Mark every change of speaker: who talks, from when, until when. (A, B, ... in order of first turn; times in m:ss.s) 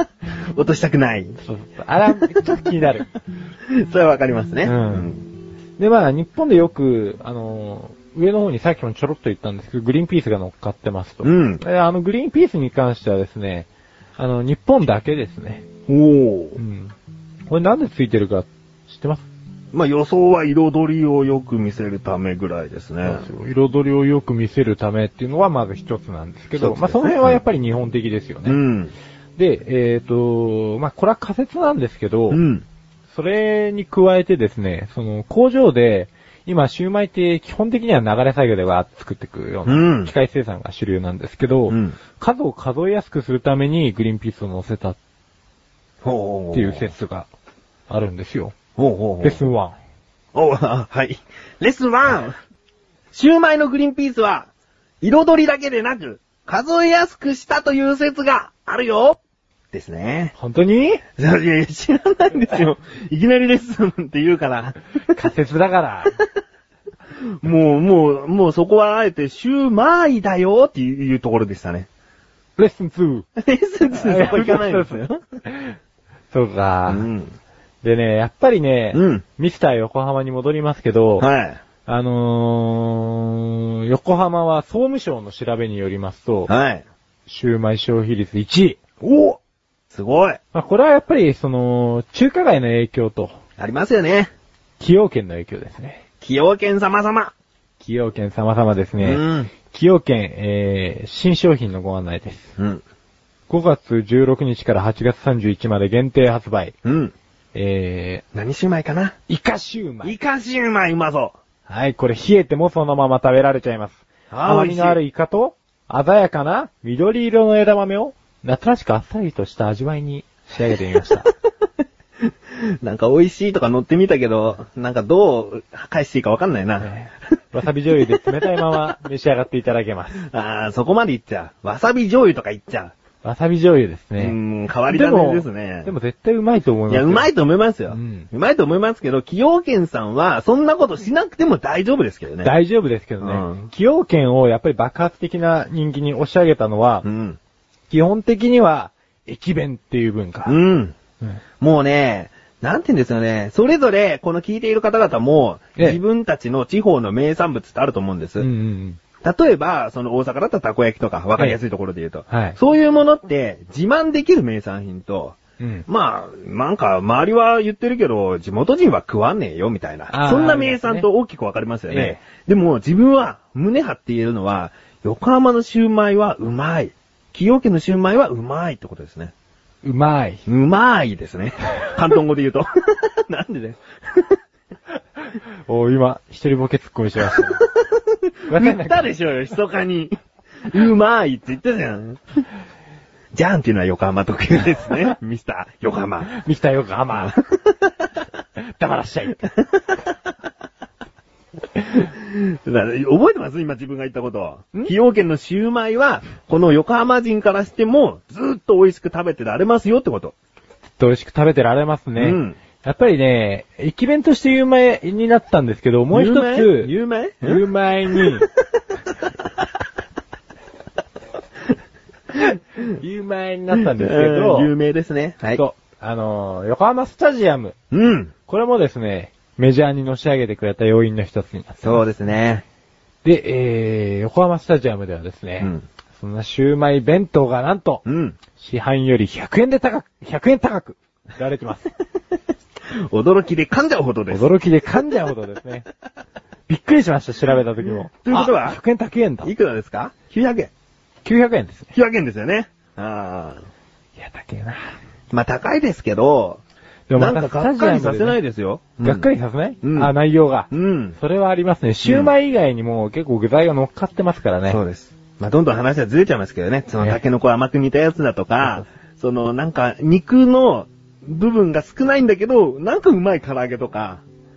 0:00.5-0:01.4 A
0:01.4-0:03.1 B
0:03.7-0:05.2 A
0:04.6-0:05.1 B
0:05.8-0:15.6 B
0:11.2-0:11.6 A
0:15.9-0:16.6 A
0:16.6-0:16.9 B
0:17.5-0:19.3 B
0:19.7-0:23.3 A
0:23.0-0:28.6 B
0:26.6-0:27.4 A
0:28.4-0:28.9 A
0:29.4-0:32.4 B
0:32.3-0:32.6 A
0:33.1-0:45.0 B
0:39.7-0:40.1 A
0:41.7-0:42.0 A
0:46.0-0:46.9 A
0:46.5-0:47.3 B
0:47.9-0:48.6 B
0:48.8-0:49.4 A
0:49.2-0:49.8 B
0:50.3-0:52.4 A
0:53.1-0:54.5 A
0:55.0-0:59.2 A
0:59.7-1:00.3 A
1:00.4-1:01.0 B
1:01.2-1:04.8 A
1:05.1-1:06.2 B
1:07.4-1:11.9 A
1:12.6-1:13.3 B
1:13.4-1:15.2 A
1:13.9-1:15.8 B
1:16.3-1:17.1 B
1:16.9-1:17.4 A
1:17.8-1:21.3 B
1:18.9-1:19.2 A
1:21.2-1:21.6 A
1:21.9-1:26.5 B
1:26.5-1:26.8 A
1:27.3-1:28.8 B
1:29.0-1:29.4 A
1:29.9-1:30.4 A
1:30.5-1:33.4 B
1:33.6-1:34.3 A
1:34.8-1:36.0 B
1:36.2-1:37.3 A
1:37.8-1:42.5 B
1:39.0-1:39.5 A
1:42.6-1:42.8 A
1:43.5-1:46.8 B
1:46.8-1:47.1 A
1:47.5-1:48.2 B
1:48.3-1:49.2 A
1:49.3-1:50.1 B
1:50.0-1:51.4 A
1:51.7-2:01.3 B
1:54.3-1:55.0 A
2:02.5-2:06.9 A
2:06.8-2:10.2 B
2:10.2-2:12.9 A
2:13.2-2:17.3 B
2:14.2-2:15.9 A
2:16.9-2:22.5 A
2:17.9-2:18.3 B
2:22.4-2:27.1 B
2:23.2-2:23.7 A
2:27.0-2:27.4 A
2:27.9-2:30.6 B
2:30.5-2:31.0 A
2:31.6-2:38.5 A
2:38.4-2:39.0 B
2:39.2-2:59.3 A
2:42.3-2:42.6 B
2:45.6-2:45.8 B
2:50.1-2:51.1 B
2:51.9-2:52.2 B
2:59.8-3:00.4 B
3:00.5-3:04.4 A
3:05.7-3:07.6 B
3:07.3-3:10.2 A
3:08.5-3:09.1 B
3:10.7-3:12.2 A
3:13.3-3:16.3 A
3:16.3-3:17.4 B
3:17.1-3:17.4 A
3:18.6-3:19.5 B
3:21.9-3:30.4 A
3:31.0-3:38.5 B
3:32.2-3:32.6 A
3:36.1-3:37.6 A
3:43.0-3:44.7 B
3:43.7-3:45.6 A
3:45.5-3:47.8 B
3:47.9-3:48.3 A
3:48.5-3:52.1 B
3:51.8-3:52.6 A
3:53.2-3:58.0 B
3:58.1-3:58.4 A
3:58.6-4:01.9 B
4:02.9-4:04.5 A
4:04.3-4:05.9 B
4:06.7-4:09.5 B
4:08.2-4:08.8 A
4:09.4-4:10.7 A
4:11.2-4:11.9 B
4:11.9-4:13.6 A
4:14.2-4:15.0 B
4:15.3-4:16.6 A
4:17.1-4:18.4 B
4:17.2-4:19.3 A
4:19.0-4:24.8 B
4:19.8-4:20.1 A
4:20.7-4:21.2 A
4:22.0-4:22.3 A
4:24.7-4:34.2 A